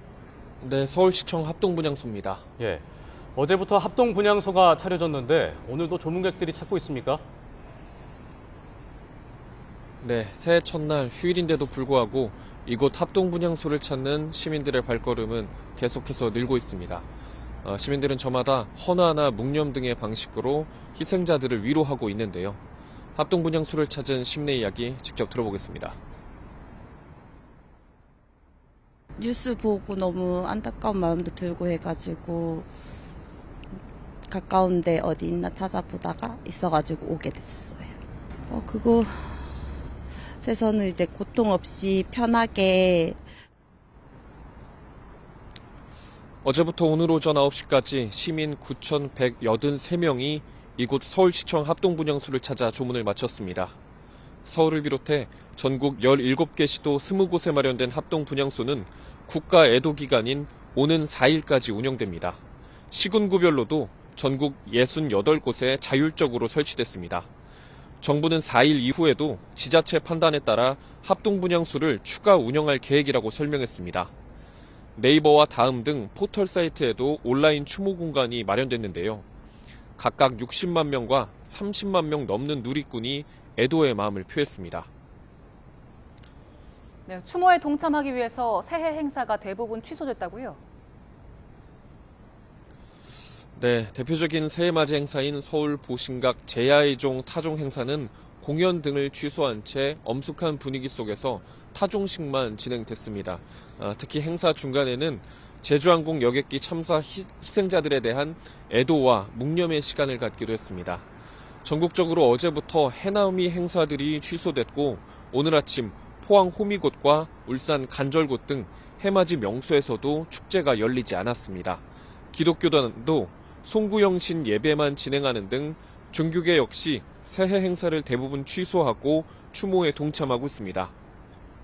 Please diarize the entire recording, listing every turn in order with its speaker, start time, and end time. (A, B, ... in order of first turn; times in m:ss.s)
0:00.6-0:02.4 A
0:02.6-0:02.8 B
0:03.4-0:07.2 B
0:10.0-0:17.1 A
0:17.6-0:22.6 A
0:23.2-0:26.0 A
0:29.2-0:32.7 C
0:34.3-0:37.9 C
0:38.5-0:39.4 C
0:40.4-0:43.2 C
0:46.4-0:53.8 A
0:54.5-1:02.4 A
1:02.9-1:07.3 A
1:08.0-1:14.1 A
1:15.0-1:19.2 A
1:20.0-1:24.9 A
1:27.1-1:30.6 D
1:33.6-1:51.1 A
1:51.6-2:10.9 A